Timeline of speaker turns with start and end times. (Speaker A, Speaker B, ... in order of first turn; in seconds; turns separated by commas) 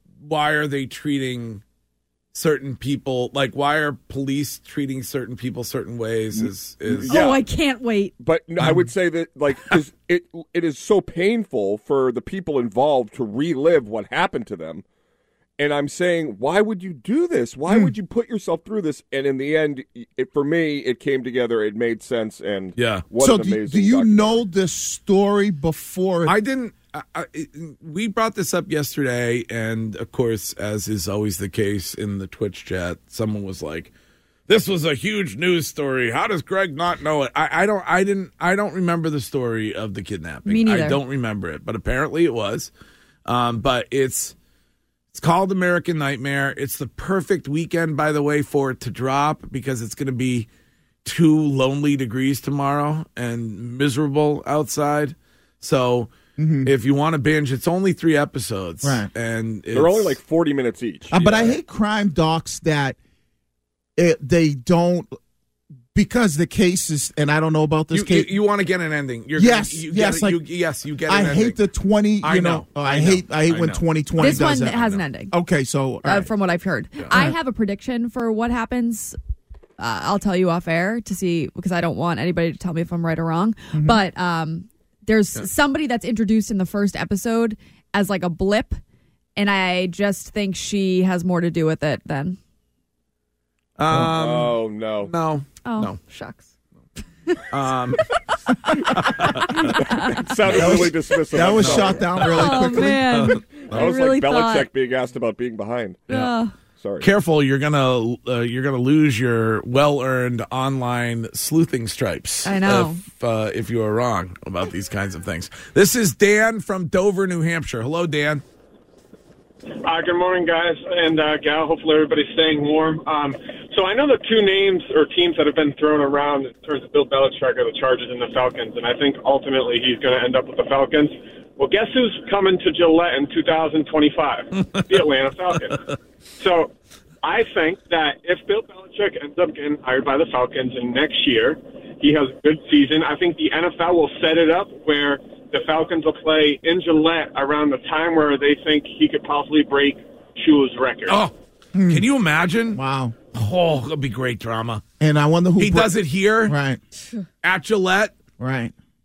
Speaker A: 0.2-1.6, Speaker A: 2.3-7.2, Speaker B: 6.9-7.4, Speaker C: 7.1-8.1, Speaker B: 8.2-14.8, Speaker B: 15.6-24.4, Speaker A: 22.8-23.0, Speaker D: 23.2-26.4, Speaker A: 26.2-33.9, Speaker A: 34.5-42.7, Speaker C: 40.5-41.0, Speaker A: 43.2-44.3, Speaker A: 45.1-50.5, Speaker A: 51.0-56.1, Speaker D: 56.4-56.7, Speaker A: 56.6-60.2, Speaker D: 58.8-59.1, Speaker B: 59.7-61.6, Speaker D: 61.1-63.0, Speaker D: 64.0-65.1, Speaker D: 65.9-68.3, Speaker A: 67.9-71.6, Speaker D: 69.3-70.4, Speaker D: 71.1-76.3, Speaker A: 72.2-73.8, Speaker C: 74.2-75.3, Speaker C: 76.0-79.2, Speaker D: 77.1-77.3, Speaker C: 79.8-88.8, Speaker D: 83.7-84.0, Speaker C: 89.3-92.4, Speaker A: 93.8-96.0, Speaker B: 94.0-95.1, Speaker C: 95.6-96.5, Speaker A: 97.5-98.0, Speaker C: 98.7-100.1, Speaker A: 99.0-99.6, Speaker B: 99.6-102.1, Speaker A: 100.4-103.9, Speaker D: 100.5-103.4, Speaker C: 102.3-104.7, Speaker B: 103.7-106.1, Speaker C: 106.1-106.5, Speaker B: 106.8-107.1, Speaker A: 107.0-118.4, Speaker C: 112.4-113.0, Speaker E: 119.8-135.8, Speaker E: 136.4-136.7, Speaker E: 137.2-151.2, Speaker A: 151.1-151.3, Speaker D: 151.7-152.1, Speaker A: 151.9-152.8, Speaker D: 152.7-153.1, Speaker A: 153.3-154.8, Speaker D: 155.0-156.8, Speaker A: 155.6-156.6, Speaker A: 157.4-158.2, Speaker D: 158.4-158.7